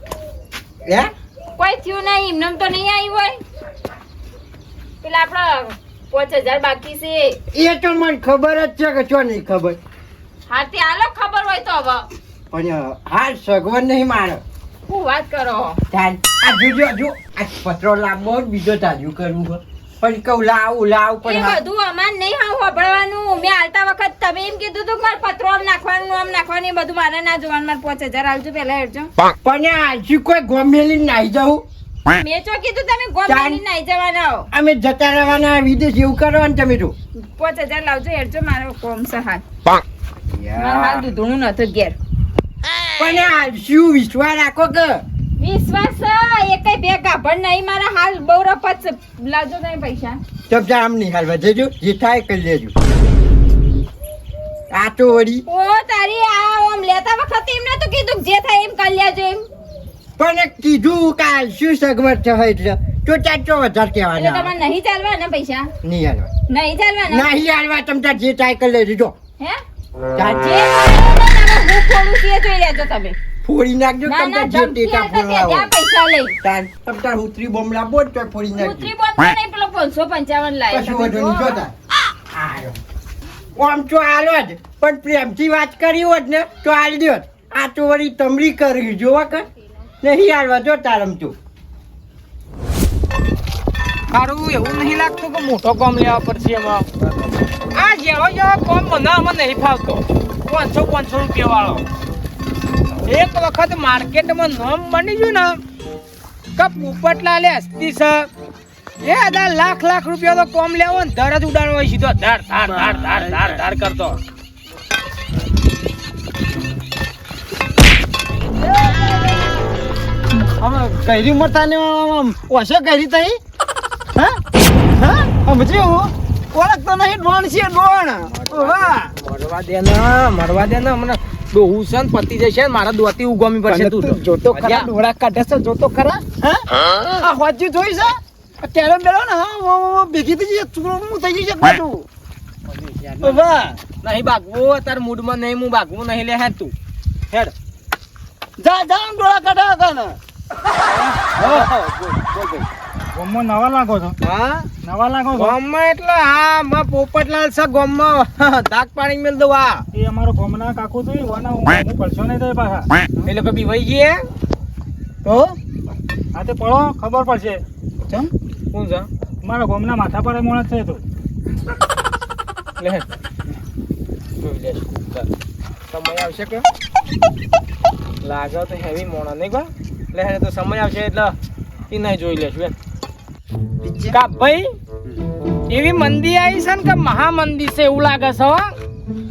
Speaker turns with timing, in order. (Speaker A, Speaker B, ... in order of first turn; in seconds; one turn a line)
Speaker A: 0.9-1.1
Speaker B: 1.6-3.4
Speaker B: 5.0-7.4
Speaker A: 7.5-9.8
Speaker B: 10.5-12.1
Speaker A: 12.5-14.4
Speaker B: 14.9-15.8
Speaker A: 15.9-21.6
Speaker B: 21.2-29.1
Speaker A: 29.4-31.6
Speaker B: 32.1-34.5
Speaker A: 33.3-33.6
Speaker A: 34.5-37.0
Speaker B: 37.4-39.4
Speaker A: 40.3-41.1
Speaker B: 40.6-42.0
Speaker A: 43.0-45.0
Speaker B: 45.4-50.2
Speaker A: 50.5-52.7
Speaker A: 54.7-55.5
Speaker B: 55.5-59.5
Speaker A: 60.2-64.5
Speaker B: 64.2-65.7
Speaker A: 65.8-66.3
Speaker B: 66.5-67.3
Speaker A: 67.1-69.1
Speaker A: 70.2-70.7
Speaker B: 70.4-73.2
Speaker A: 73.4-75.7
Speaker B: 74.1-76.4
Speaker A: 76.4-78.9
Speaker B: 78.6-81.6
Speaker A: 80.7-81.7
Speaker A: 82.3-82.8
Speaker A: 83.6-89.5
Speaker A: 90.0-91.4
Speaker C: 94.1-96.9
Speaker C: 97.7-101.9
Speaker C: 103.1-105.6
Speaker C: 106.6-108.3
Speaker C: 109.0-114.2
Speaker D: 112.8-113.5
Speaker D: 120.6-123.4
Speaker D: 125.0-129.1
Speaker C: 128.3-134.9
Speaker D: 133.7-136.7
Speaker D: 137.2-142.1
Speaker C: 142.7-143.4
Speaker D: 143.2-143.8
Speaker C: 144.0-146.7
Speaker D: 148.6-150.2
Speaker C: 150.8-152.7
Speaker D: 151.4-151.7
Speaker E: 153.2-154.2
Speaker C: 154.2-154.7
Speaker E: 154.8-155.5
Speaker C: 155.3-159.8
Speaker E: 159.9-162.9
Speaker C: 163.3-164.3
Speaker D: 165.2-165.6
Speaker E: 166.3-167.6
Speaker C: 168.7-169.1
Speaker E: 169.4-171.0
Speaker C: 172.8-173.1
Speaker C: 174.4-175.3
Speaker C: 175.9-176.7
Speaker C: 178.2-181.4
Speaker C: 181.9-182.8
Speaker C: 184.1-184.7
Speaker C: 185.7-188.7